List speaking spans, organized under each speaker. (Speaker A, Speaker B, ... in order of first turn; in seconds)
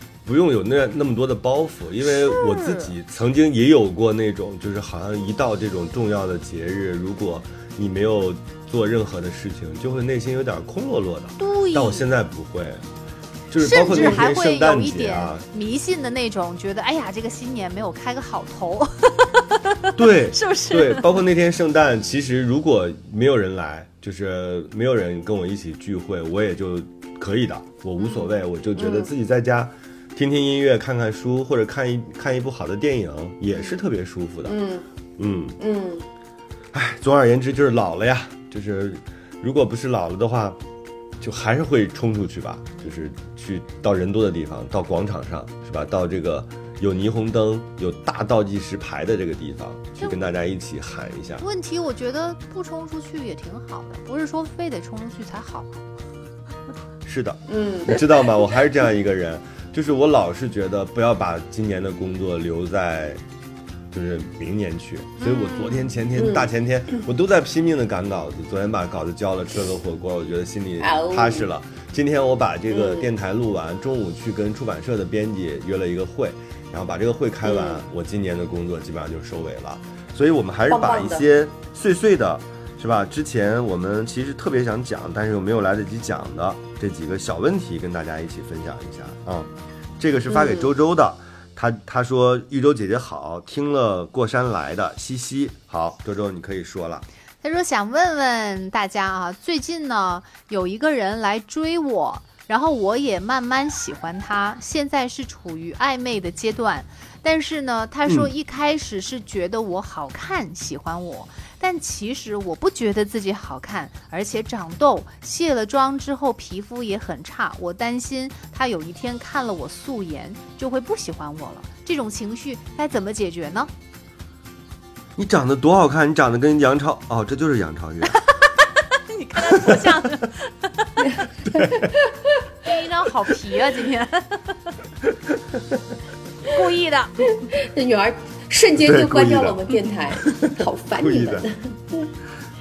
Speaker A: 0.2-12.8, 13.5-15.4, 19.9-34.5, 35.2-35.6, 36.7-40.6, 41.2-51.4, 57.0-63.2, 63.9-97.0, 108.0-108.3, 125.2-128.2, 129.5-129.8, 131.4-131.9, 135.3-135.8, 138.8-140.5, 141.0-141.4
Speaker B: 2.0-2.9, 11.4-12.1, 13.6-21.2, 50.0-50.2, 51.4-55.8, 65.2-65.9, 97.4-123.7, 128.1-131.2, 132.6-134.7, 136.4-137.3
Speaker C: 28.8-29.1, 34.4-34.9, 35.6-36.1, 57.5-58.0, 66.2-66.5, 70.8-71.5, 72.7-73.1, 77.4-77.8, 80.7-81.3, 90.3-90.7, 131.6-131.8, 137.5-142.1